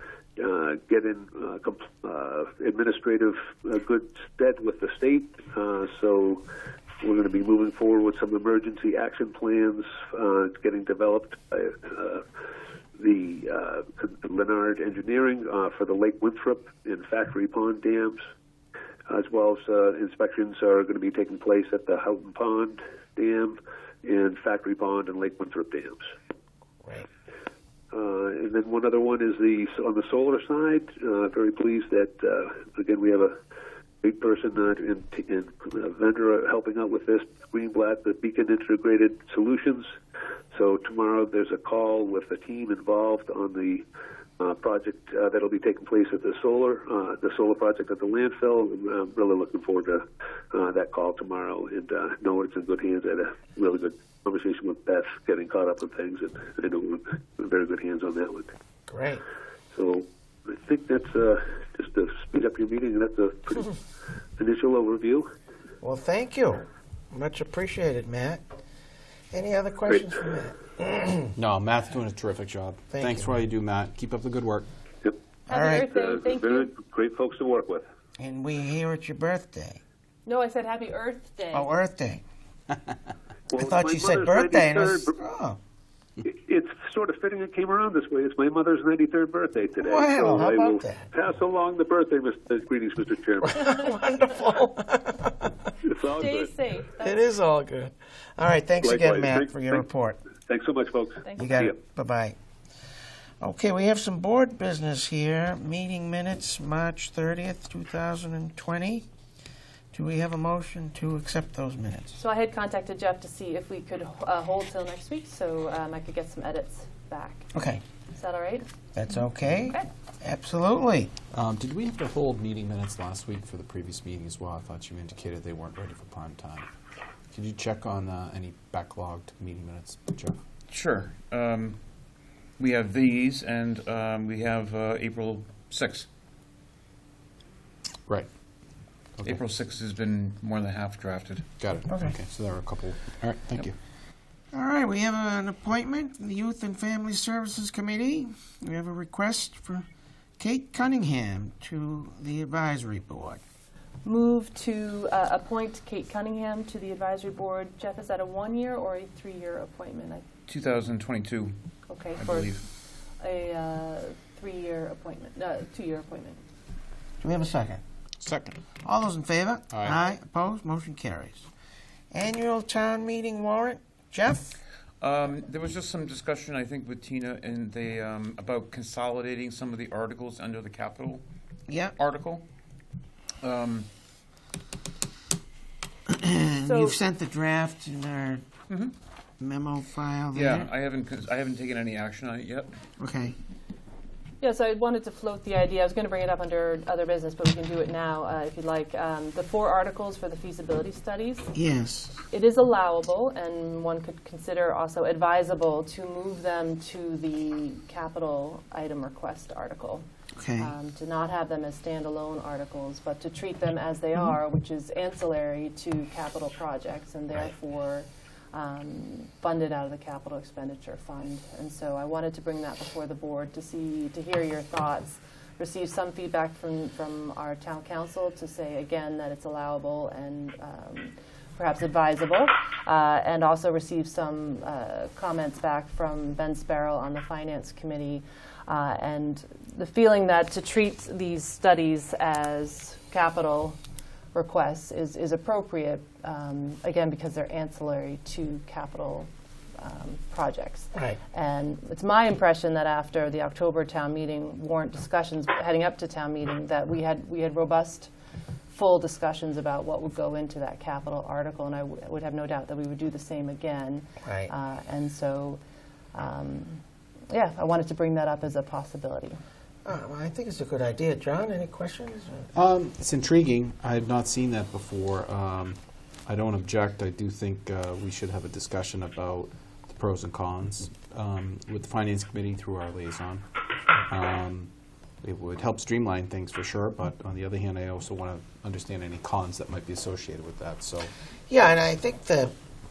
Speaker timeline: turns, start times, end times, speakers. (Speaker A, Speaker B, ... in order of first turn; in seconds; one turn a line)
Speaker A: 0.4-6.4
Speaker A: 7.0-12.2
Speaker A: 12.9-18.2
Speaker A: 19.1-26.0
Speaker A: 27.9-33.4
Speaker A: 34.0-39.9
Speaker A: 40.5-43.8
Speaker A: 44.4-58.5
Speaker B: 58.9-59.2
Speaker A: 59.7-63.7
Speaker A: 64.4-65.3
Speaker B: 65.8-68.4
Speaker B: 69.3-71.3
Speaker C: 71.3-74.7
Speaker B: 72.9-73.3
Speaker D: 75.5-76.7
Speaker B: 75.5-75.9
Speaker A: 75.7-77.8
Speaker B: 78.2-79.8
Speaker D: 80.2-81.7
Speaker B: 81.5-82.2
Speaker A: 83.5-85.1
Speaker B: 83.5-85.6
Speaker A: 86.2-93.7
Speaker B: 89.8-91.0
Speaker B: 93.5-95.5
Speaker A: 95.8-96.5
Speaker D: 96.0-97.3
Speaker B: 97.0-100.2
Speaker A: 98.8-99.8
Speaker A: 100.4-101.8
Speaker D: 101.2-101.5
Speaker B: 101.4-102.4
Speaker B: 103.4-109.0
Speaker B: 109.9-112.2
Speaker D: 112.2-117.5
Speaker B: 117.5-117.8
Speaker D: 118.1-118.6
Speaker B: 118.9-121.1
Speaker C: 121.3-126.7
Speaker C: 127.3-130.4
Speaker E: 130.7-131.8
Speaker E: 132.6-136.1
Speaker E: 139.2-141.5
Speaker C: 141.6-143.7
Speaker B: 141.9-142.2
Speaker B: 144.5-149.8
Speaker B: 150.4-153.4
Speaker D: 154.0-160.2
Speaker E: 160.5-161.6
Speaker D: 161.9-162.6
Speaker E: 162.2-162.6
Speaker D: 163.2-166.4
Speaker B: 167.2-167.8
Speaker C: 168.2-168.5
Speaker B: 168.8-171.5
Speaker C: 169.7-170.0
Speaker B: 172.1-174.6
Speaker E: 175.0-181.2
Speaker B: 181.7-182.0
Speaker E: 181.9-182.4
Speaker E: 183.4-183.9
Speaker B: 186.1-188.4
Speaker D: 186.6-187.0
Speaker B: 189.4-190.7
Speaker E: 190.3-192.7
Speaker B: 193.0-193.4
Speaker D: 194.4-201.5
Speaker B: 201.5-202.2
Speaker D: 202.3-210.0
Speaker B: 210.4-210.7
Speaker D: 210.6-243.8
Speaker D: 244.3-258.1
Speaker D: 258.7-265.6
Speaker B: 264.2-264.5
Speaker D: 266.1-269.4
Speaker B: 269.8-272.5
Speaker C: 272.5-283.4
Speaker C: 284.1-284.7
Speaker C: 285.2-291.1
Speaker B: 291.5-292.5